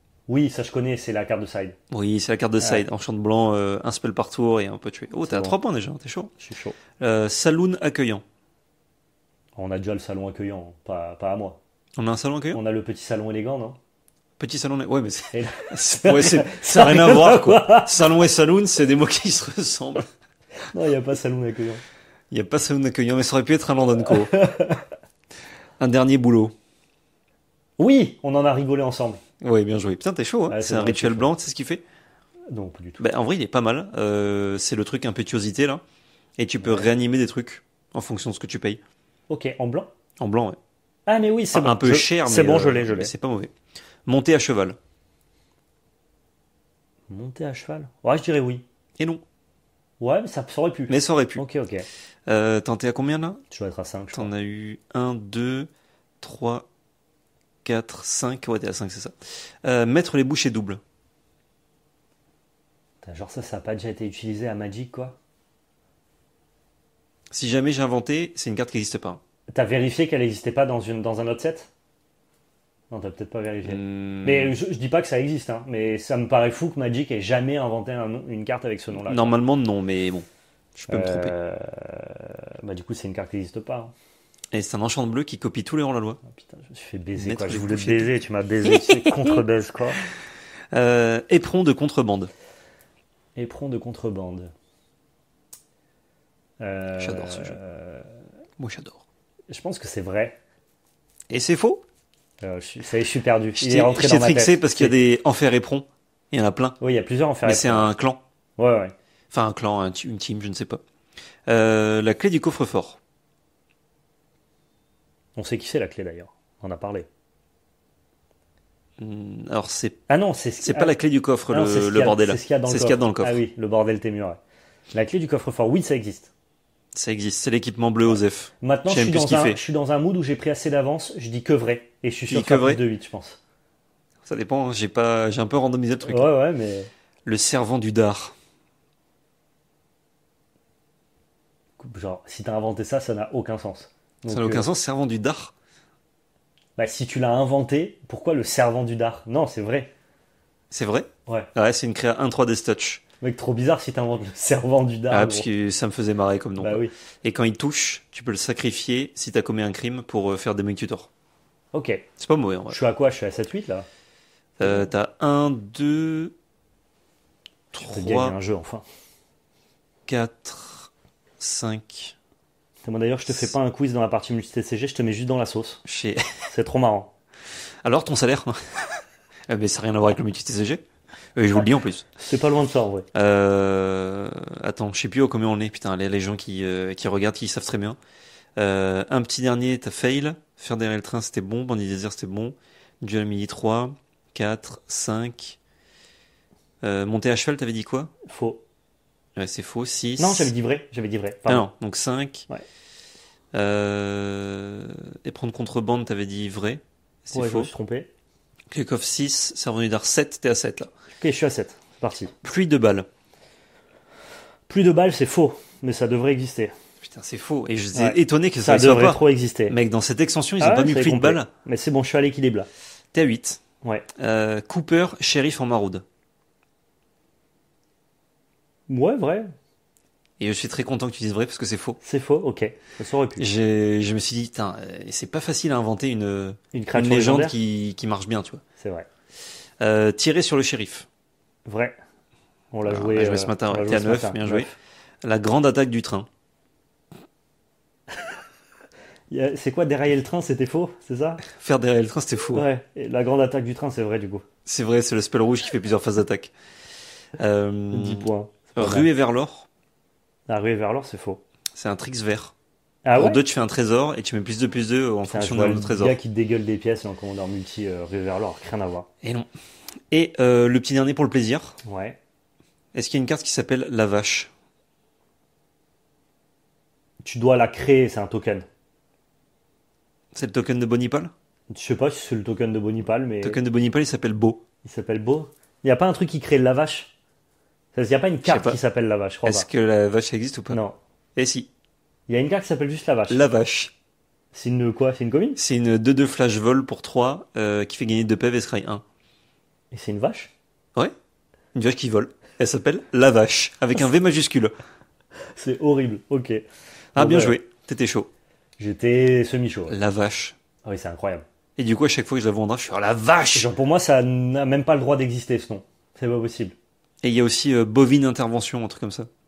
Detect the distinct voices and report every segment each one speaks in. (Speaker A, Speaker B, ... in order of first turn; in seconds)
Speaker A: 0.3-1.8, 5.3-5.5, 6.4-6.8, 9.6-11.6, 12.5-13.8, 15.3-18.1, 20.6-21.8, 24.1-24.8, 27.8-29.2, 30.5-31.3, 32.5-33.0, 36.6-36.9, 39.3-39.9, 41.1-43.1, 47.1-48.6, 50.0-51.9, 53.5-54.3, 63.0-65.2, 69.5-71.7, 72.9-79.3, 80.9-83.9, 86.3-90.0, 93.3-94.5, 96.6-98.1, 99.5-100.4, 102.4-104.9, 106.8-107.9, 108.6-108.9, 115.3-117.1, 120.1-121.0, 121.5-124.4, 124.9-126.3, 128.1-133.4, 136.1-136.9, 141.8-144.6, 146.8-149.9, 153.2-155.5, 156.6-156.9, 161.7-162.1, 162.7-163.9, 164.6-164.9, 167.8-168.8, 172.8-175.8, 176.5-177.1, 182.2-183.1, 198.2-198.6, 200.2-201.7, 207.3-208.1, 211.2-212.3, 214.7-216.7, 217.9-219.7, 220.6-222.7, 228.9-229.5, 232.0-233.5, 236.7-237.5, 238.8-239.1, 241.7-242.0, 242.7-244.8, 249.3-251.4, 252.5-254.4, 257.9-259.1, 260.5-261.4, 263.0-263.4, 265.2-269.1, 271.8-272.2, 277.2-278.6, 281.7-283.6, 284.8-287.1, 287.9-289.7, 290.7-290.9, 292.3-293.4, 294.5-295.6, 299.9-300.5, 305.5-306.6, 307.1-307.6, 308.8-309.9, 310.9-311.4, 313.5-316.7
Speaker B: 1.9-6.3, 7.0-8.2, 12.0-12.6, 14.4-20.1, 22.3-24.3, 25.8-26.5, 29.4-31.8, 33.0-35.8, 36.4-38.8, 40.2-40.6, 41.5-43.5, 44.0-44.8, 50.9-51.4, 52.3-53.4, 54.1-55.7, 56.2-56.7, 57.6-60.8, 67.3-69.2, 73.7-74.5, 79.0-80.2, 80.8-81.3, 84.5-86.2, 87.2-88.1, 88.7-89.4, 90.7-92.3, 97.0-97.5, 98.6-99.0, 101.3-101.8, 103.6-106.8, 107.4-108.2, 109.3-110.8, 111.5-113.0, 119.0-120.0, 120.6-123.4, 126.9-129.6, 132.3-132.8, 134.2-136.3, 137.2-138.3, 144.3-145.5, 150.7-153.0, 155.1-161.1, 162.2-162.8, 164.6-166.3, 167.7-168.3, 170.1-172.2, 175.8-176.5, 177.8-180.8, 181.3-182.1, 183.1-188.0, 188.6-195.6, 196.8-198.1, 199.3-200.5, 201.5-202.5, 203.5-207.7, 208.7-210.9, 212.4-213.1, 217.0-221.5, 223.1-223.6, 224.1-226.0, 230.4-232.0, 233.4-238.6, 239.8-241.1, 242.8-244.7, 245.2-246.3, 251.4-252.6, 254.7-256.5, 257.4-259.7, 261.7-262.5, 263.1-266.1, 269.2-269.5, 270.1-271.8, 272.9-274.5, 280.3-281.3, 283.4-284.6, 288.4-288.8, 289.4-290.8, 291.4-291.7, 293.3-293.9, 295.6-299.0, 301.7-304.7, 307.1-308.3, 309.9-310.6, 311.8-313.7, 317.2-319.3